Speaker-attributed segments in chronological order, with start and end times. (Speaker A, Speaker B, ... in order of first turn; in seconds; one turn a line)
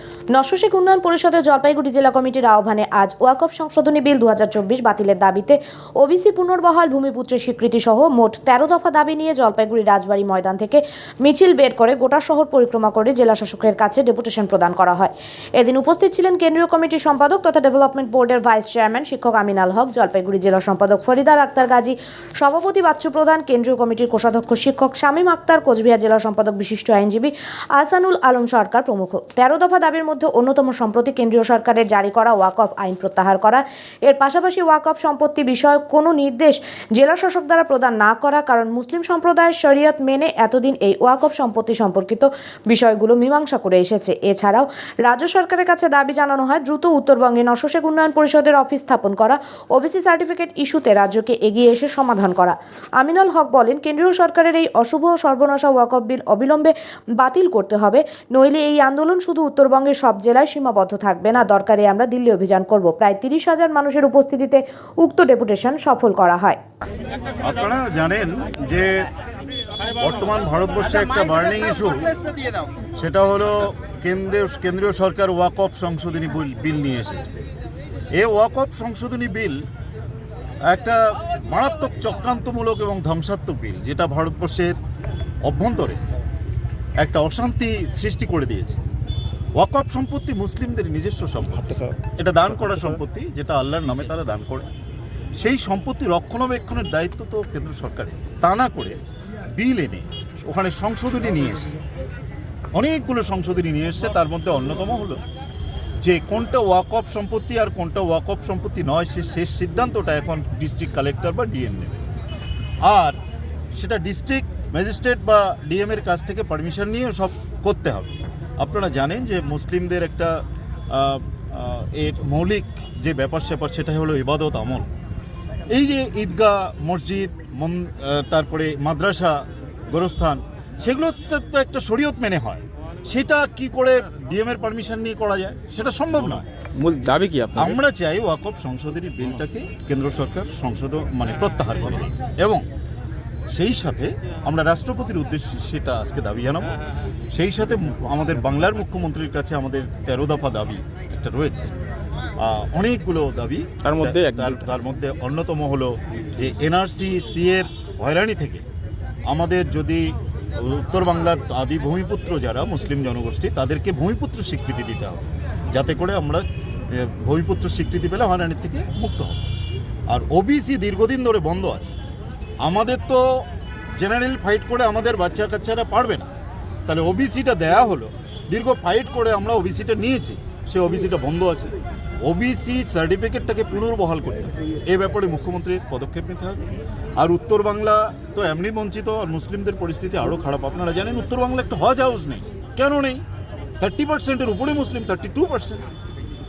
Speaker A: 0.3-66.6
Speaker B: 67.4-69.1
Speaker B: 70.0-72.1
Speaker B: 73.0-77.3
Speaker B: 78.1-79.6
Speaker B: 80.7-84.8
Speaker B: 85.4-86.0
Speaker B: 87.0-88.8
Speaker B: 89.5-91.6
Speaker C: 91.6-92.0
Speaker B: 92.2-94.7
Speaker C: 92.6-93.0
Speaker B: 95.4-99.0
Speaker B: 99.5-101.7
Speaker B: 102.7-105.2
Speaker B: 106.0-112.0
Speaker B: 112.8-113.2
Speaker B: 113.7-124.9
Speaker B: 125.7-136.4
Speaker C: 136.8-137.8
Speaker B: 137.6-142.6
Speaker B: 143.5-146.7
Speaker B: 147.3-151.7
Speaker B: 152.4-158.6
Speaker C: 153.8-154.6
Speaker B: 159.2-169.4
Speaker B: 170.1-171.9
Speaker B: 172.6-173.4
Speaker B: 174.0-176.3
Speaker B: 176.9-181.7
Speaker B: 182.2-186.6
Speaker B: 187.2-193.2
Speaker B: 193.8-195.8